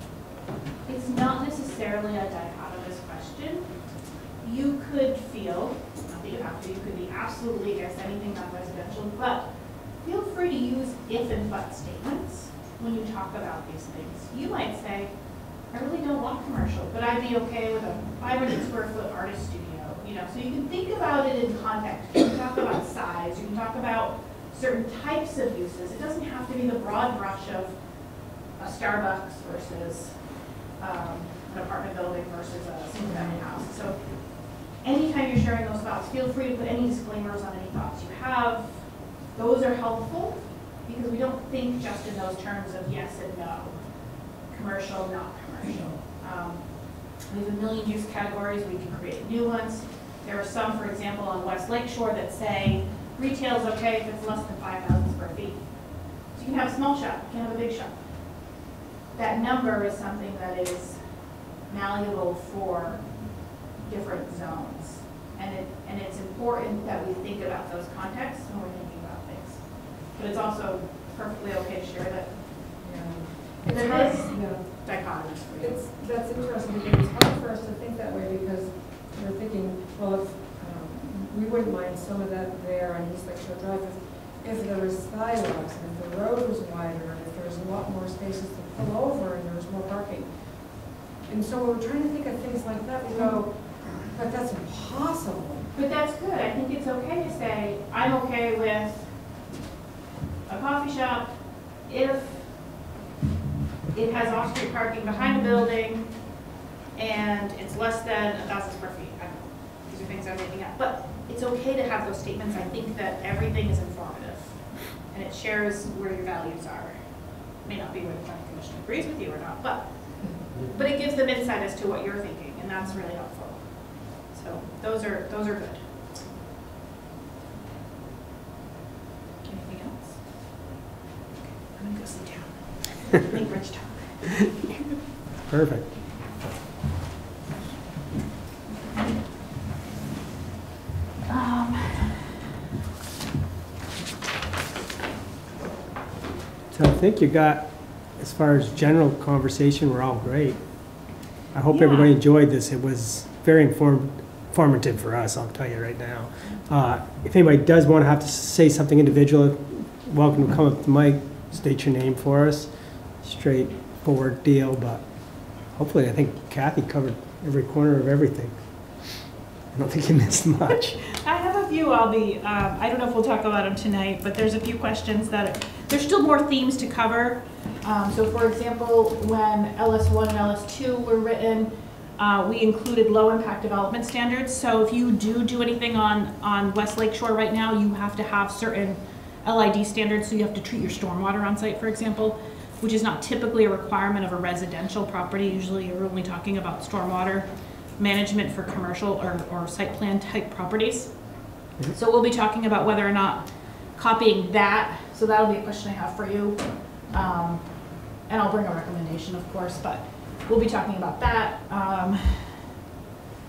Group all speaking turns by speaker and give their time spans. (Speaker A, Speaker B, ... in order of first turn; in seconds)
Speaker A: 0.8-58.6, 59.1-72.8, 73.7-75.8, 95.7-99.5, 100.5-102.8, 103.9-126.1, 129.4-134.6, 141.3-142.3, 151.7-152.1, 171.2-212.7
Speaker B: 33.0-33.4, 72.8-95.7
Speaker C: 135.5-135.9, 146.7-169.2, 169.7-171.0